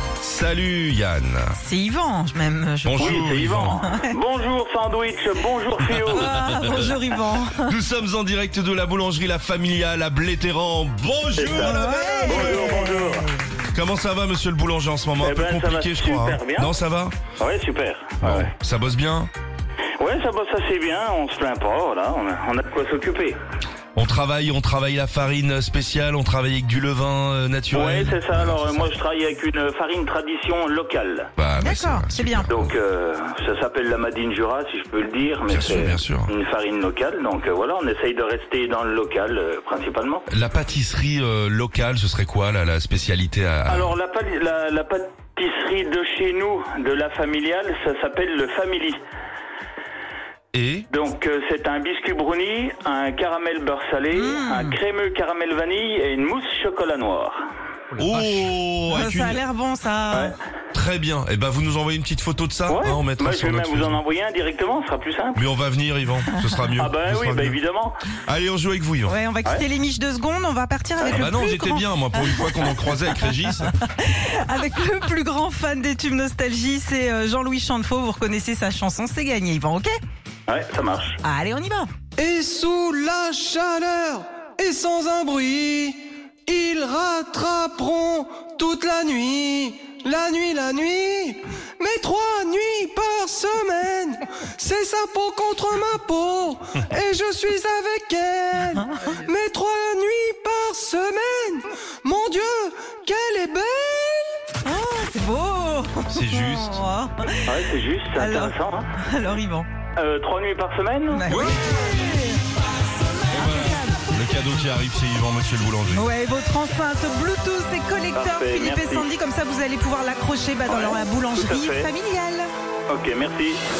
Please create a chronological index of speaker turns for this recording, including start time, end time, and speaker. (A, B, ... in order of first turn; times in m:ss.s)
0:00.2-0:01.5 A
0:01.6-0:04.1 B
0:02.8-0:03.8 A
0:03.0-0:06.2 C
0:05.9-0:06.5 A
0:06.1-0:07.7 B
0:07.6-0:12.8 A
0:11.4-0:13.3 C
0:11.5-0:13.4 B
0:13.7-0:17.2 A
0:15.2-0:16.7 C
0:17.4-0:18.5 C
0:18.2-0:19.3 A
0:20.0-0:23.4 C
0:24.0-0:28.9 A
0:27.7-0:31.3 C
0:31.4-0:32.7 A
0:31.6-0:32.5 B
0:32.5-0:40.2 C
0:35.5-0:36.3 A
0:40.3-0:43.9 A
0:43.7-0:49.0 C
0:50.5-0:50.9 A
0:50.9-0:57.4 C
0:54.1-0:54.8 B
0:58.0-0:59.4 A
0:58.9-1:00.3 B
1:00.7-1:04.0 A
1:02.7-1:05.4 C
1:05.4-1:07.6 A
1:06.8-1:08.0 C
1:08.2-1:09.1 A
1:09.0-1:13.2 B
1:11.1-1:13.7 A
1:13.7-1:20.0 B
1:20.5-1:21.2 C
1:21.2-1:21.9 B
1:22.2-1:44.4 D
1:38.8-1:39.0 B
1:44.6-1:47.4 B
1:46.1-1:46.8 A
1:47.4-1:48.9 C
1:48.2-1:49.7 B
1:50.0-1:51.2 C
1:51.1-1:52.4 B
1:51.3-1:51.6 A
1:53.3-1:56.1 A
1:53.3-1:54.0 B
1:55.9-2:02.5 B
1:58.1-1:59.1 C
2:00.6-2:01.9 C
2:02.9-2:03.6 C